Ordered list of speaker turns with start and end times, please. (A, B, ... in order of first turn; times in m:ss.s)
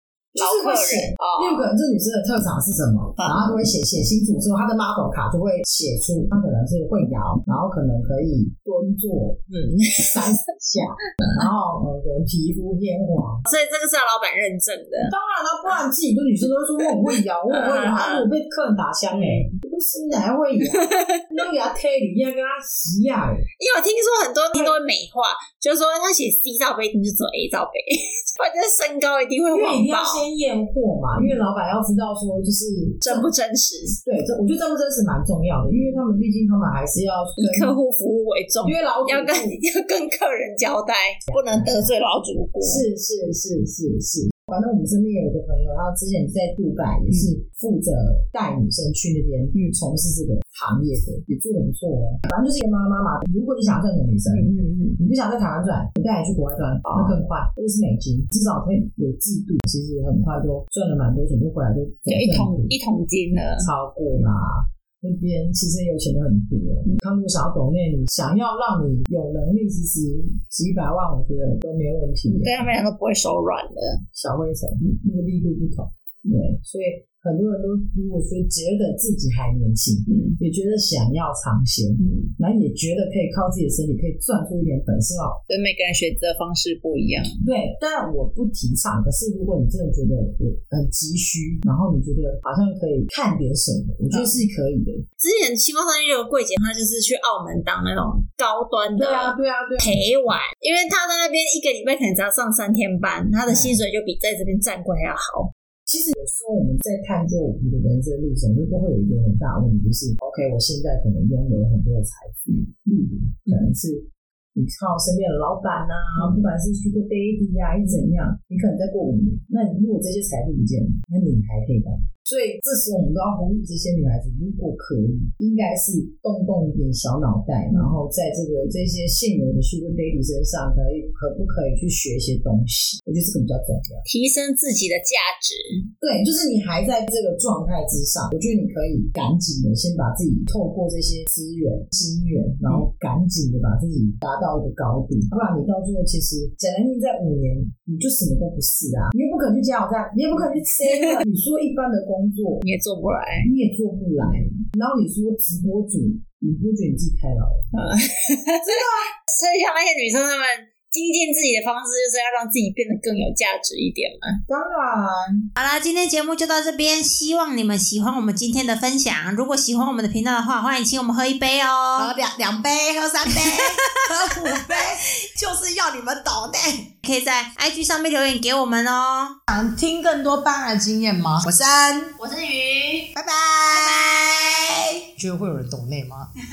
0:00.3-0:13.4 A
0:00.4-0:01.7 B
0:03.2-0:03.5 B
0:09.5-0:10.2 B
0:13.4-0:15.1 B
0:15.0-0:23.4 A
0:17.5-0:18.3 B
0:19.1-0:19.5 B
0:20.7-0:21.3 B
0:23.6-0:30.2 B
0:29.5-0:33.3 A
0:33.0-0:34.0 B
0:34.0-0:37.7 A
0:37.4-0:42.8 B
0:38.6-0:39.6 A
0:41.3-0:41.9 A
0:42.6-1:02.7 A
0:54.3-0:55.0 B
0:56.8-0:57.2 B
1:02.1-1:03.7 B
1:03.6-1:12.6 A
1:12.3-1:14.0 B
1:14.1-1:25.4 A
1:20.1-1:20.4 B
1:22.0-1:22.3 B
1:25.5-1:27.4 B
1:27.4-1:35.0 A
1:35.2-1:45.5 B
1:39.0-1:40.0 A
1:43.4-1:43.8 A
1:45.8-2:14.0 A
2:07.7-2:08.0 B
2:14.0-2:15.9 B
2:16.0-2:32.6 A
2:32.6-2:33.5 B
2:33.4-2:37.7 A
2:37.7-2:44.4 B
2:38.6-2:39.1 A
2:44.5-2:45.5 A
2:45.6-2:52.1 C
2:52.0-2:56.9 D
2:53.3-2:54.7 C
2:57.0-2:59.4 C
2:59.5-3:02.2 D
2:59.5-3:01.4 E
3:02.2-3:03.1 C
3:03.1-3:05.1 D
3:03.7-3:04.1 C
3:05.2-3:06.3 E